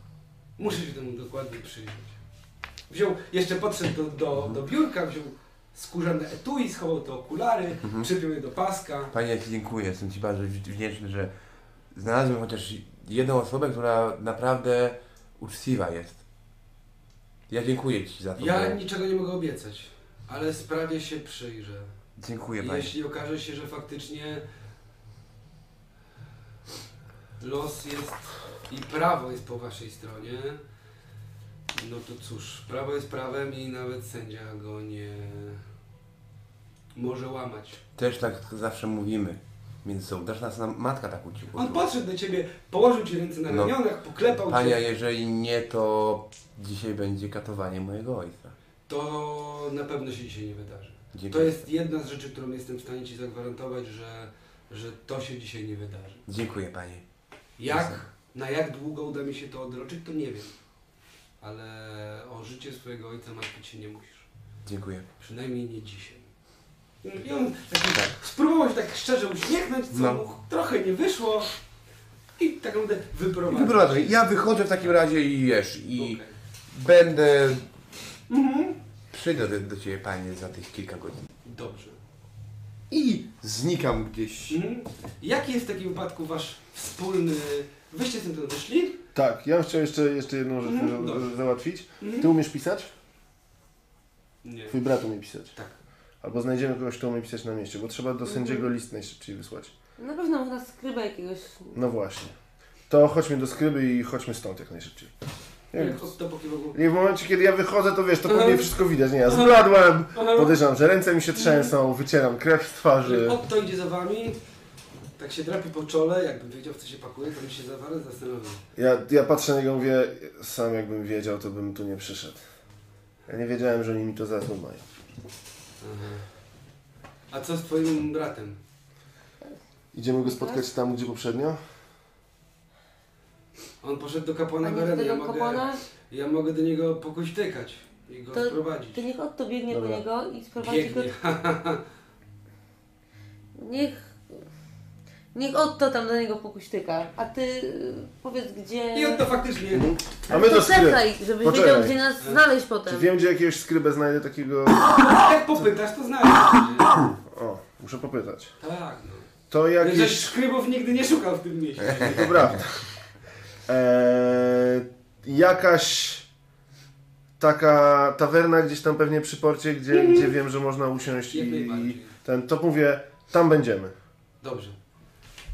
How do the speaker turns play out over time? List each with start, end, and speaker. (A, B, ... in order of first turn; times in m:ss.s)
0:00.6-0:02.2 A
0:02.9-0:09.1 A
0:07.8-0:08.1 B
0:09.1-0:11.3 B
0:11.9-0:16.2 B
0:17.5-0:18.8 B
0:18.4-0:21.9 A
0:22.2-0:22.9 B
0:22.6-0:24.4 A
0:27.4-0:30.6 A
0:31.7-0:35.6 A
0:36.9-0:37.8 A
0:37.9-0:41.8 B
0:41.6-0:44.8 A
0:43.5-0:43.7 B
0:44.4-0:48.5 B
0:48.9-0:56.2 A
0:51.1-0:51.6 B
0:56.3-0:57.0 B
0:57.6-1:00.6 A
0:57.7-0:58.0 B
1:01.4-1:04.3 A
1:04.6-1:05.1 B
1:05.2-1:06.3 A
1:07.0-1:11.5 A
1:09.9-1:10.2 B
1:12.4-1:14.1 A
1:13.5-1:16.2 B
1:15.9-1:16.3 A
1:16.7-1:17.6 B
1:18.3-1:18.8 A
1:19.1-1:21.3 B
1:21.4-1:22.0 A
1:22.9-1:24.6 B
1:24.5-1:29.0 A
1:29.1-1:32.9 C
1:30.6-1:31.3 A
1:32.0-1:32.3 A
1:34.4-1:34.8 A
1:34.7-1:35.5 C
1:36.2-1:39.7 C
1:38.3-1:38.7 D
1:40.0-1:41.7 D
1:41.7-1:42.3 C
1:42.9-1:45.1 C
1:45.7-1:46.1 C
1:45.7-1:46.8 A
1:46.7-1:53.4 C
1:48.2-1:48.7 A
1:49.3-1:49.6 A
1:50.1-1:50.6 A
1:51.3-1:51.7 A
1:53.0-1:54.4 A
1:55.2-1:58.6 A
1:58.8-2:02.4 C
2:03.3-2:04.8 C
2:05.8-2:06.3 A
2:07.3-2:08.6 A
2:09.9-2:11.6 C
2:10.2-2:10.6 D
2:13.8-2:19.0 A
2:14.6-2:15.8 D
2:18.3-2:21.1 D
2:19.7-2:20.0 C
2:20.6-2:21.8 A
2:23.6-2:24.4 D
2:25.3-2:29.2 D
2:28.9-2:29.9 A
2:29.8-2:32.0 C
2:30.3-2:33.1 D
2:32.8-2:35.0 C
2:34.9-2:36.9 A
2:37.2-2:38.5 C
2:38.6-2:42.6 A
2:39.5-2:40.3 C
2:42.0-2:42.9 C
2:43.6-2:46.3 C
2:47.4-2:53.9 C
2:49.9-2:50.3 A
2:51.3-2:52.2 A
2:54.4-2:54.8 A